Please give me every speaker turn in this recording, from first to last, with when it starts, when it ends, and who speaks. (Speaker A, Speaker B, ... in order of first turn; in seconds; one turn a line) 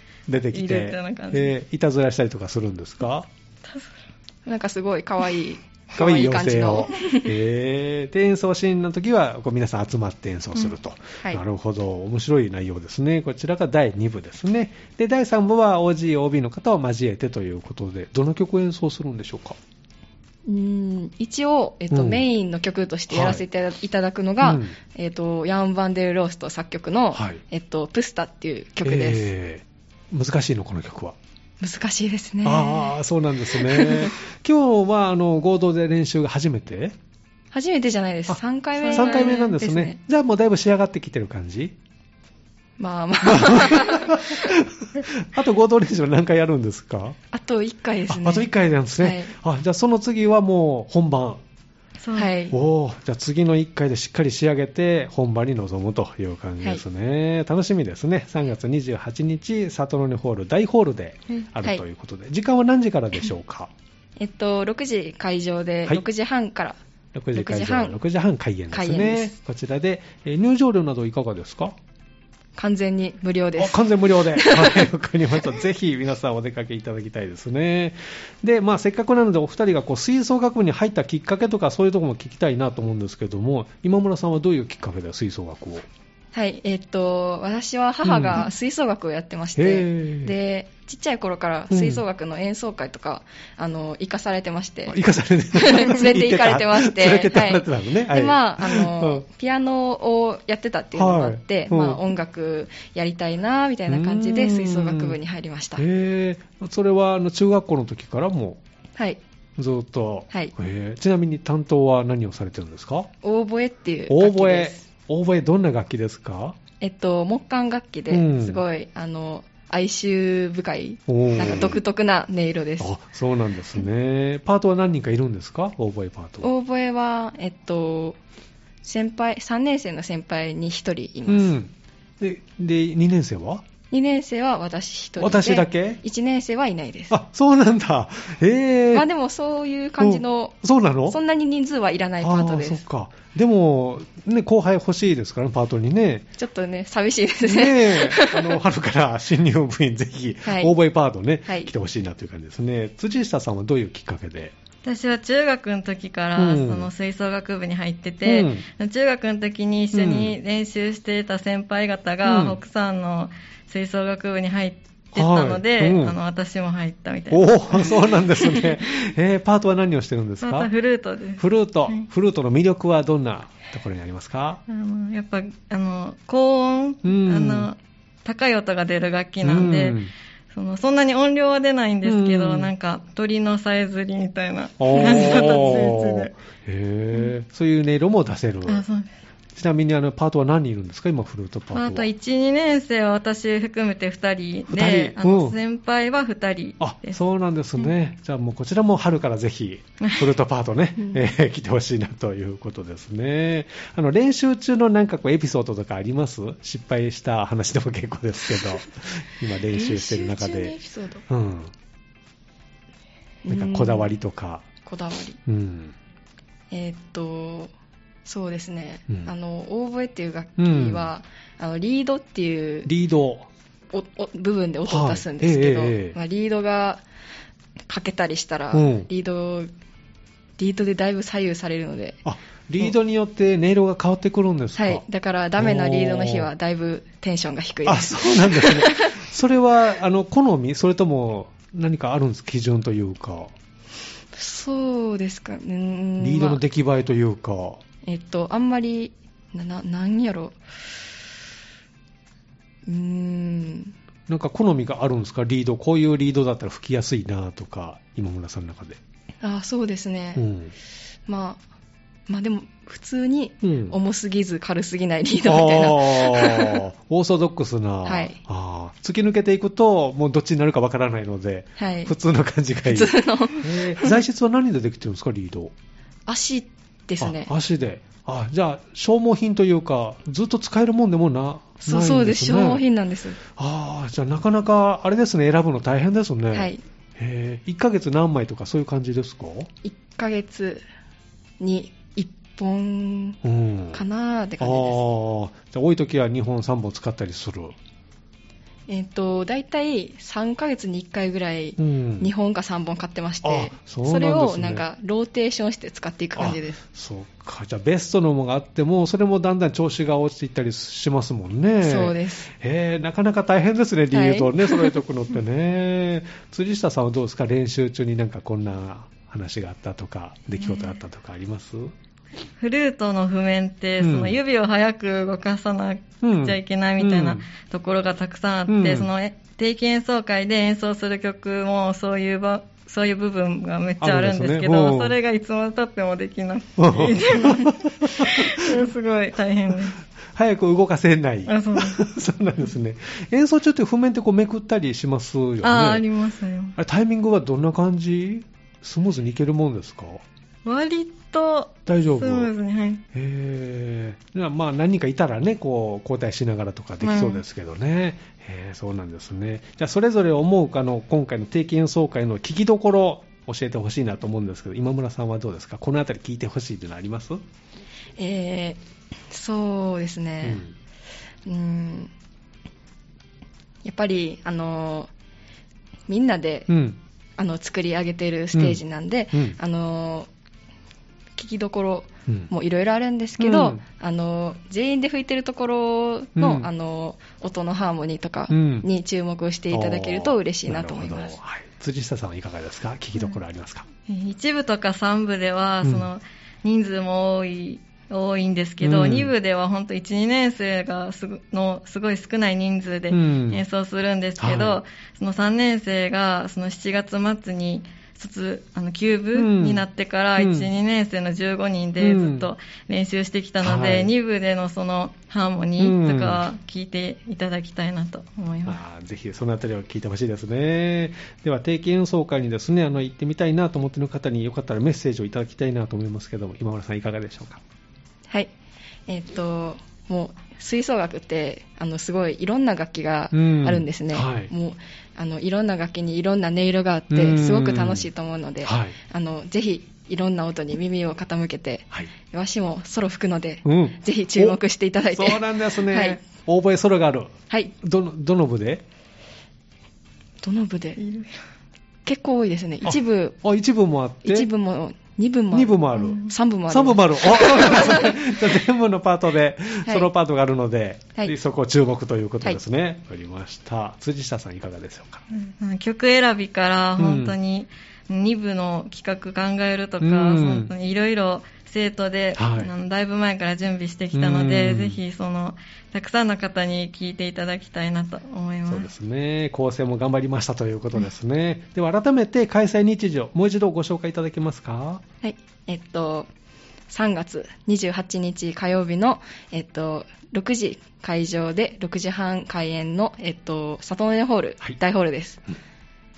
Speaker A: 0.3-3.3
Speaker B: 0.5-1.5
Speaker C: 4.5-7.3
Speaker A: 6.0-19.6
Speaker C: 20.4-29.3
Speaker A: 21.9-22.2
Speaker A: 23.1-23.4
Speaker A: 24.4-24.7
Speaker A: 27.1-27.4
Speaker A: 28.8-31.1
Speaker C: 31.6-33.0
Speaker A: 32.4-37.0
Speaker C: 33.5-34.1
Speaker C: 37.5-40.0
Speaker B: 38.8-39.5
Speaker A: 38.9-41.7
Speaker C: 42.8-44.5
Speaker A: 43.2-47.2
Speaker C: 47.3-49.3
Speaker A: 48.1-51.4
Speaker B: 52.0-52.3
Speaker C: 52.1-52.5
Speaker A: 52.5-63.7
Speaker C: 64.2-66.8
Speaker A: 67.1-71.8
Speaker C: 67.3-68.0
Speaker C: 68.7-69.3
Speaker C: 72.6-74.9
Speaker A: 73.6-85.9
Speaker C: 86.3-95.0
Speaker A: 88.0-88.5
Speaker A: 89.5-90.3
Speaker A: 91.7-92.0
Speaker A: 94.9-99.2
Speaker C: 95.5-105.8
Speaker A: 100.9-102.0
Speaker A: 103.9-105.2
Speaker A: 105.8-108.6
Speaker C: 109.0-109.2
Speaker A: 109.6-113.1
Speaker C: 113.2-114.8
Speaker A: 114.1-116.5
Speaker C: 116.8-122.9
Speaker A: 118.1-118.6
Speaker A: 121.1-121.8
Speaker A: 122.8-126.5
Speaker C: 126.4-128.2
Speaker C: 128.8-131.5
Speaker A: 131.3-133.6
Speaker C: 133.9-137.2
Speaker A: 135.2-136.0
Speaker A: 137.1-139.1
Speaker C: 138.9-140.6
Speaker A: 140.0-141.2
Speaker C: 141.1-142.8
Speaker A: 142.2-146.3
Speaker C: 146.4-148.6
Speaker A: 147.4-154.5
Speaker C: 150.4-150.7
Speaker B: 154.8-168.7
Speaker A: 156.3-156.9
Speaker A: 158.2-158.6
Speaker A: 159.9-160.3
Speaker A: 162.2-162.6
Speaker A: 165.1-166.2
Speaker A: 167.3-170.7
Speaker B: 170.4-172.1
Speaker A: 171.4-174.6
Speaker B: 174.7-180.0
Speaker A: 177.0-177.7
Speaker A: 179.4-180.1
Speaker B: 180.5-186.3
Speaker A: 182.0-182.7
Speaker A: 184.8-188.8
Speaker B: 188.7-189.1
Speaker A: 189.6-192.1
Speaker B: 191.7-197.2
Speaker A: 194.7-195.6
Speaker A: 196.8-210.7
Speaker B: 200.0-200.3
Speaker C: 209.7-211.3
Speaker A: 211.3-211.7
Speaker C: 213.4-214.1
Speaker A: 213.5-214.7
Speaker C: 214.8-215.4
Speaker A: 215.4-215.9
Speaker C: 216.7-217.7
Speaker C: 218.2-222.9
Speaker A: 220.6-221.1
Speaker A: 222.8-223.5
Speaker C: 223.9-227.0
Speaker A: 224.9-226.2
Speaker C: 227.9-229.7
Speaker A: 228.7-229.1
Speaker C: 230.6-232.2
Speaker A: 232.2-235.0
Speaker C: 234.8-239.2
Speaker A: 235.6-236.5
Speaker A: 237.8-243.5
Speaker C: 244.3-246.6
Speaker A: 246.2-247.8
Speaker C: 248.1-250.6
Speaker C: 252.8-253.9
Speaker A: 254.3-259.0
Speaker C: 259.4-260.5
Speaker A: 260.4-260.7
Speaker C: 261.3-261.6
Speaker C: 262.3-266.8
Speaker A: 263.6-263.9
Speaker A: 265.4-275.7
Speaker C: 268.0-268.4
Speaker C: 271.8-272.1
Speaker C: 272.9-274.1
Speaker C: 276.3-277.5
Speaker A: 277.2-282.8
Speaker C: 281.8-283.4
Speaker A: 283.5-289.7
Speaker C: 286.5-286.8
Speaker C: 289.8-290.8
Speaker C: 291.6-293.4
Speaker A: 293.4-294.0
Speaker C: 293.9-295.0
Speaker A: 294.6-297.7
Speaker C: 298.9-306.8
Speaker A: 301.8-302.3
Speaker A: 303.4-304.8
Speaker A: 306.4-321.9
Speaker C: 311.8-312.5
Speaker C: 314.1-314.9
Speaker B: 322.6-340.0
Speaker A: 324.0-324.4
Speaker A: 326.2-327.4
Speaker A: 328.7-329.1
Speaker A: 334.0-335.1
Speaker A: 336.8-338.8
Speaker A: 340.3-346.0
Speaker B: 341.5-342.0
Speaker B: 345.6-346.8
Speaker A: 346.8-350.2
Speaker B: 350.6-353.0
Speaker A: 351.9-352.5
Speaker A: 353.1-367.4
Speaker B: 357.0-357.4
Speaker C: 368.2-370.6
Speaker A: 370.4-370.7
Speaker C: 371.4-372.1
Speaker C: 373.8-375.1
Speaker C: 376.1-376.7
Speaker A: 376.7-377.0
Speaker C: 377.4-380.3
Speaker A: 378.5-378.8
Speaker C: 381.4-391.4
Speaker A: 383.4-383.8
Speaker A: 386.4-386.7
Speaker A: 388.5-388.9
Speaker A: 389.7-393.9
Speaker B: 394.1-418.8
Speaker A: 398.8-399.3
Speaker A: 403.1-403.6
Speaker A: 404.4-404.8
Speaker A: 409.3-409.8
Speaker A: 410.4-410.7
Speaker A: 412.0-412.5
Speaker A: 413.6-414.1
Speaker A: 415.8-416.4
Speaker A: 418.6-427.6
Speaker C: 429.1-446.2
Speaker A: 433.3-434.5
Speaker A: 437.1-438.1
Speaker A: 438.6-438.9
Speaker A: 443.6-444.6
Speaker A: 445.1-448.8
Speaker C: 450.4-451.0
Speaker B: 451.0-451.3
Speaker C: 452.1-453.4
Speaker A: 452.8-454.5
Speaker C: 454.2-458.1
Speaker A: 455.5-465.2
Speaker C: 459.8-460.1
Speaker B: 465.3-478.9
Speaker A: 467.0-467.4
Speaker A: 470.0-470.7
Speaker A: 472.4-472.7
Speaker A: 474.1-475.0
Speaker A: 478.7-485.0
Speaker C: 485.2-486.3
Speaker C: 486.9-495.4